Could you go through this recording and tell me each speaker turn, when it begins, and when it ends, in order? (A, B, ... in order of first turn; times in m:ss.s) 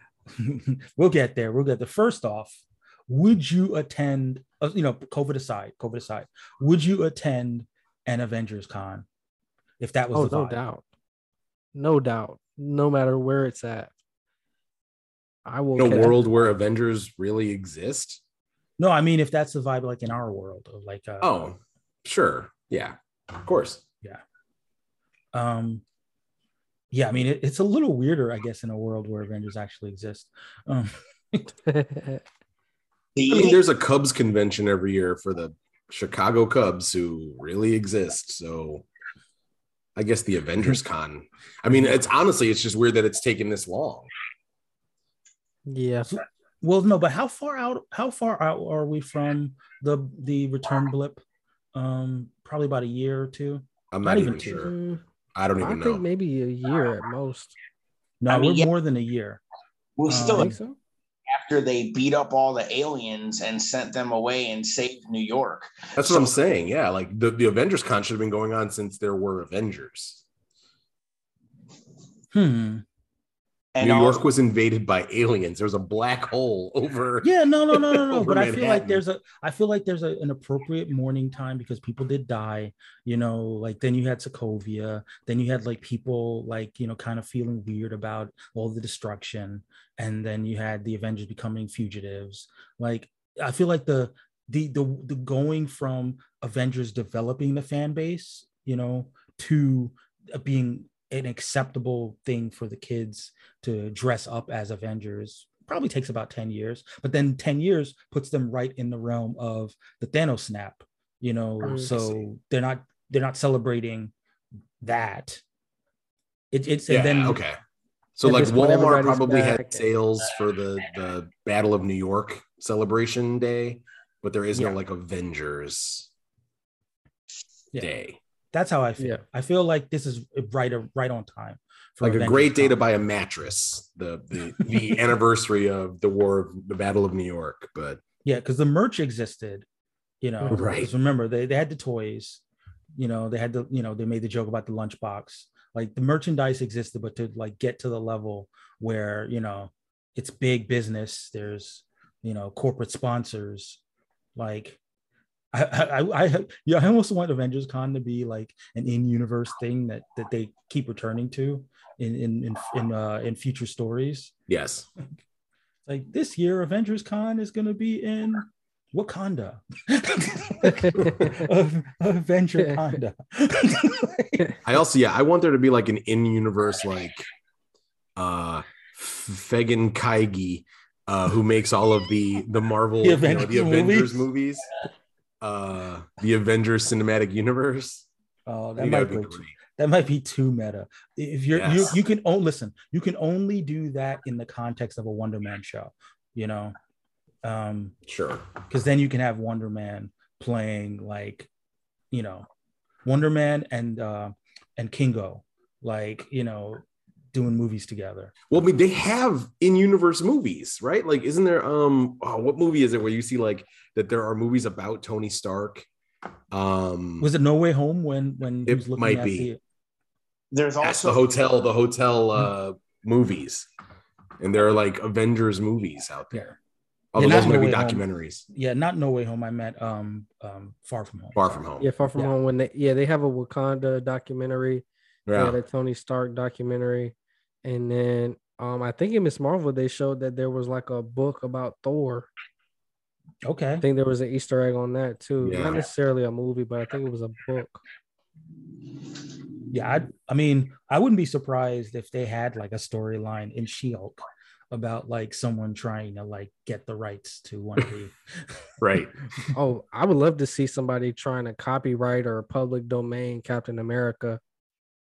0:00.3-0:09.1 A
0:09.8-0:10.6 A
0:10.1-0:10.8 B
0:11.8-0:13.9 B
0:15.5-0:16.2 B
0:15.8-0:18.2 C
0:18.8-0:21.3 A
0:21.2-0:23.8 C
0:25.3-0:25.8 A
0:26.9-0:31.6 A
0:31.7-0:32.2 B
0:33.2-0:33.6 D
0:33.3-0:38.9 C
0:40.0-0:44.1 C
0:41.7-0:42.0 A
0:45.7-0:46.1 B
0:46.1-0:51.2 A
0:51.7-0:54.7 A
0:53.9-0:54.7 C
0:54.4-0:55.0 B
0:55.4-0:56.0 C
0:55.6-0:57.6 B
0:58.2-0:59.4 A
0:58.3-0:58.7 D
1:00.0-1:00.5 D
1:00.1-1:00.6 A
1:00.2-1:00.8 B
1:01.3-1:06.4 D
1:06.0-1:10.2 C
1:12.3-1:12.8 A
1:13.8-1:14.2 D
1:13.8-1:19.0 C
1:17.2-1:54.1 A
1:51.6-1:51.9 B
1:54.8-1:55.4 A
1:56.5-1:57.4 A
1:56.9-1:57.6 C
1:58.2-2:06.1 C
1:58.2-1:59.8 B
1:58.3-1:58.6 A
2:07.8-2:08.2 C
2:08.5-2:12.8 A
2:12.0-2:18.0 C
2:18.2-2:19.7 A
2:20.2-2:22.4 A
2:20.5-2:20.9 C
2:23.0-2:33.8 A
2:34.4-2:34.8 A
2:35.5-2:44.3 A
2:44.5-2:44.9 C
2:45.9-2:54.6 A
2:52.6-2:52.9 B
2:54.6-2:57.3 C
2:58.2-3:04.7 C
3:03.0-3:04.3 A
3:05.4-3:08.1 C
3:08.5-3:16.8 A
3:08.8-3:09.6 C
3:11.6-3:12.0 C
3:17.4-3:18.0 A
3:18.1-3:18.5 C
3:18.7-3:21.5 A
3:22.1-3:22.5 A
3:23.0-3:28.3 A
3:28.5-3:35.9 C
3:36.5-3:37.3 C
3:37.2-3:39.6 A
3:38.7-3:39.5 C
3:40.5-3:41.2 D
3:40.8-3:43.7 C
3:44.4-3:46.4 C
3:47.1-3:48.4 C
3:47.2-3:51.6 A
3:51.4-3:51.9 C
3:51.8-4:02.3 B
3:55.3-3:55.6 C
4:03.4-4:03.8 A
4:03.8-4:07.8 B
4:05.4-4:05.8 C
4:09.7-4:18.6 A
4:18.8-4:19.3 C
4:19.5-4:24.4 B